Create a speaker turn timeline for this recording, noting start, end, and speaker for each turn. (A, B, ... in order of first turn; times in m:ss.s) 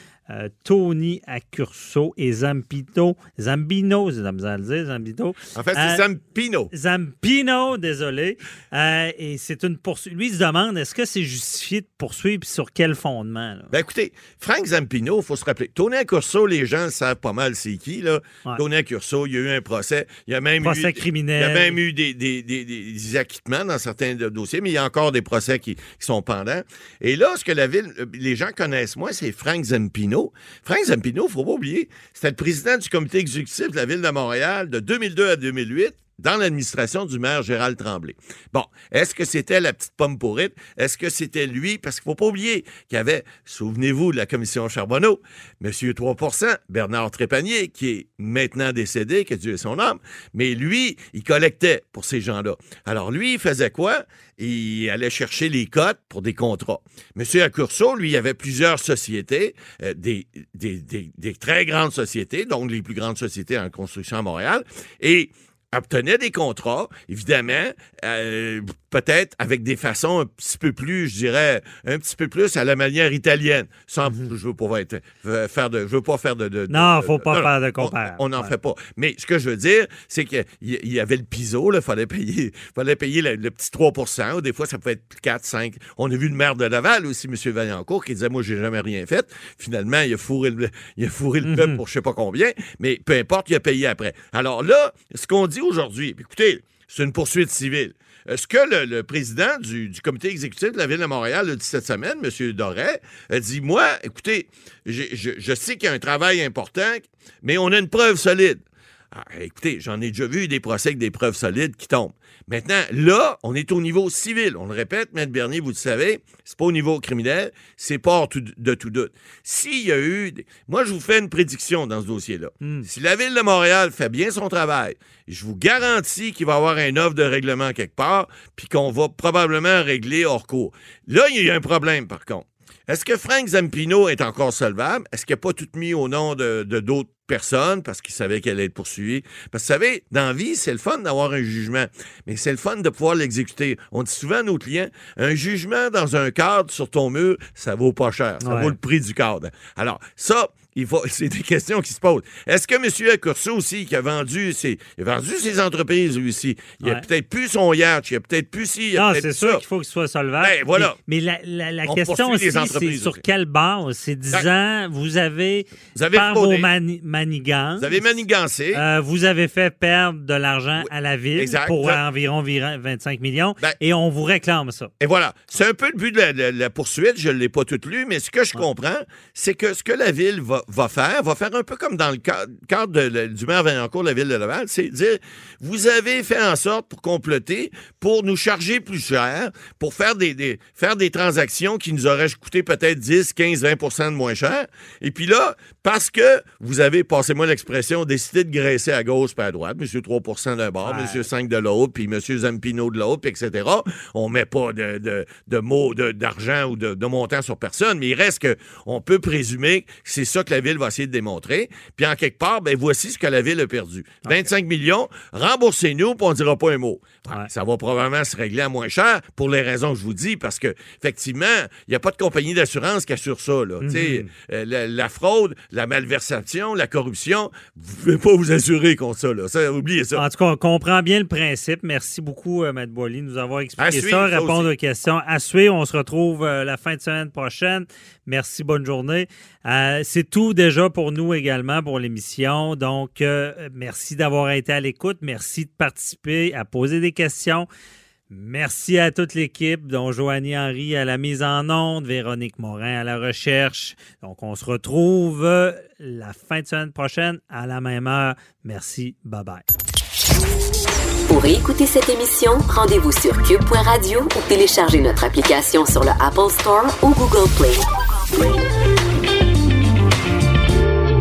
0:00.3-0:06.0 A
0:05.5-0:06.7 B
0:06.7-0:13.7 A
0:13.7-1:48.6 B
0:20.6-0:21.8 A
1:14.0-1:14.3 A
1:16.7-1:18.5 A
1:31.4-1:31.8 A
1:49.1-2:39.6 B
2:02.6-2:02.9 A
2:28.4-2:28.7 A
2:39.0-2:47.9 A
2:40.4-2:41.0 B
2:41.9-2:43.2 B
2:45.9-2:46.7 B
2:47.8-2:48.8 B
2:48.7-2:54.9 A
2:51.4-2:52.0 B
2:55.0-3:50.2 B
3:20.8-3:21.2 A
3:43.8-3:44.3 A
3:50.2-4:07.7 A
3:53.8-3:54.7 B
4:08.3-4:19.6 A
4:21.3-4:27.9 C